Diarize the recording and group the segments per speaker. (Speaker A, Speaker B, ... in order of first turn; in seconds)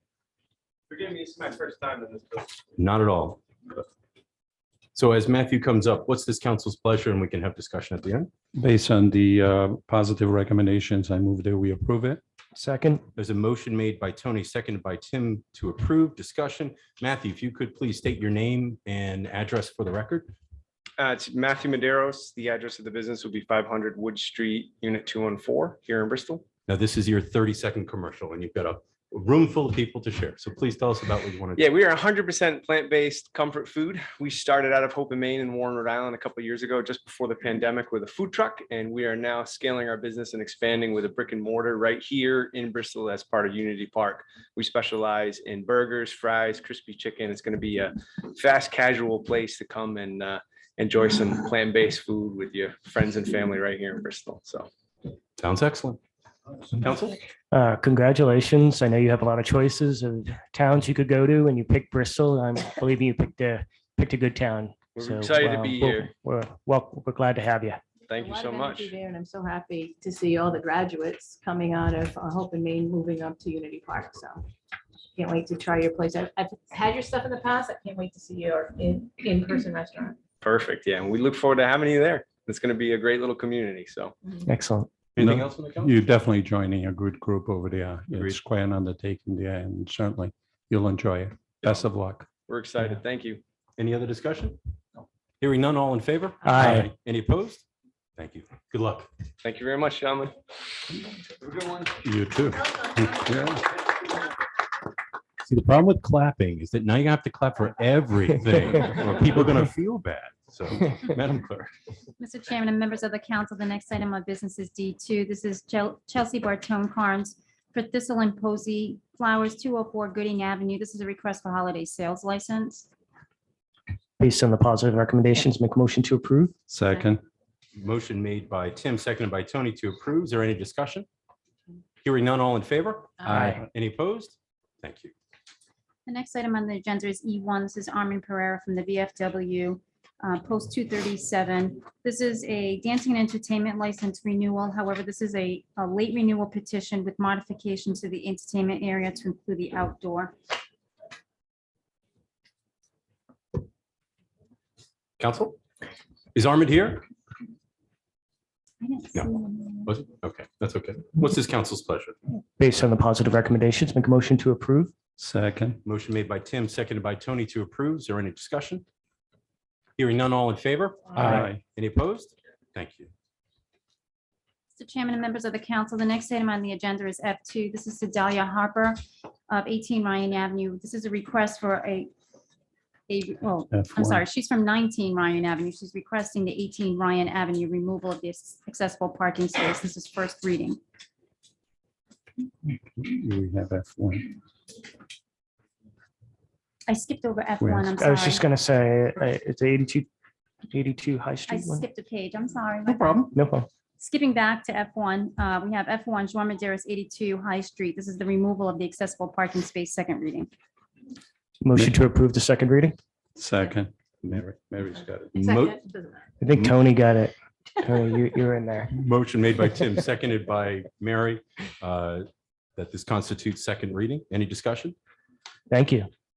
Speaker A: 0.9-2.5, 21.0-26.4, 31.6-54.7, 65.0-66.1, 68.1-68.9, 80.4-84.1, 92.5-93.4, 99.4-100.3
Speaker B: 2.8-3.4, 4.9-8.3, 13.2-20.3, 26.7-31.6, 55.4-56.0, 56.8-57.2, 85.2-86.0, 88.1-88.4, 93.8-94.6, 95.4-97.6, 98.2-99.1, 105.5-111.7, 127.7-131.1, 132.0-135.1, 155.2-155.6, 156.3-157.0, 159.9-162.1, 165.8-168.8, 170.0-173.1, 202.8-203.3, 215.3-215.8, 218.9-224.9
Speaker C: 8.5-12.2, 85.2-92.3, 96.6-96.9, 102.0-103.6, 126.7-127.2, 133.3-133.6, 165.2-165.8, 171.2-171.6, 183.7-184.2, 192.7-194.3, 197.6-197.9, 213.3-215.3
Speaker D: 12.6-13.0, 57.5-67.8, 84.5-84.9, 96.4-96.8, 124.2-126.5, 133.3-133.6, 162.6-164.9, 198.0-200.1, 200.7-201.8, 203.3-203.7, 211.6-212.9, 216.4-218.9, 225.7-226.1
Speaker E: 68.1-74.5, 75.1-80.2, 215.3-216.3
Speaker F: 112.2-122.9, 136.1-150.3, 158.8-159.9, 174.7-182.1, 183.1-190.8, 196.9-198.4, 201.5-203.2, 204.0-210.5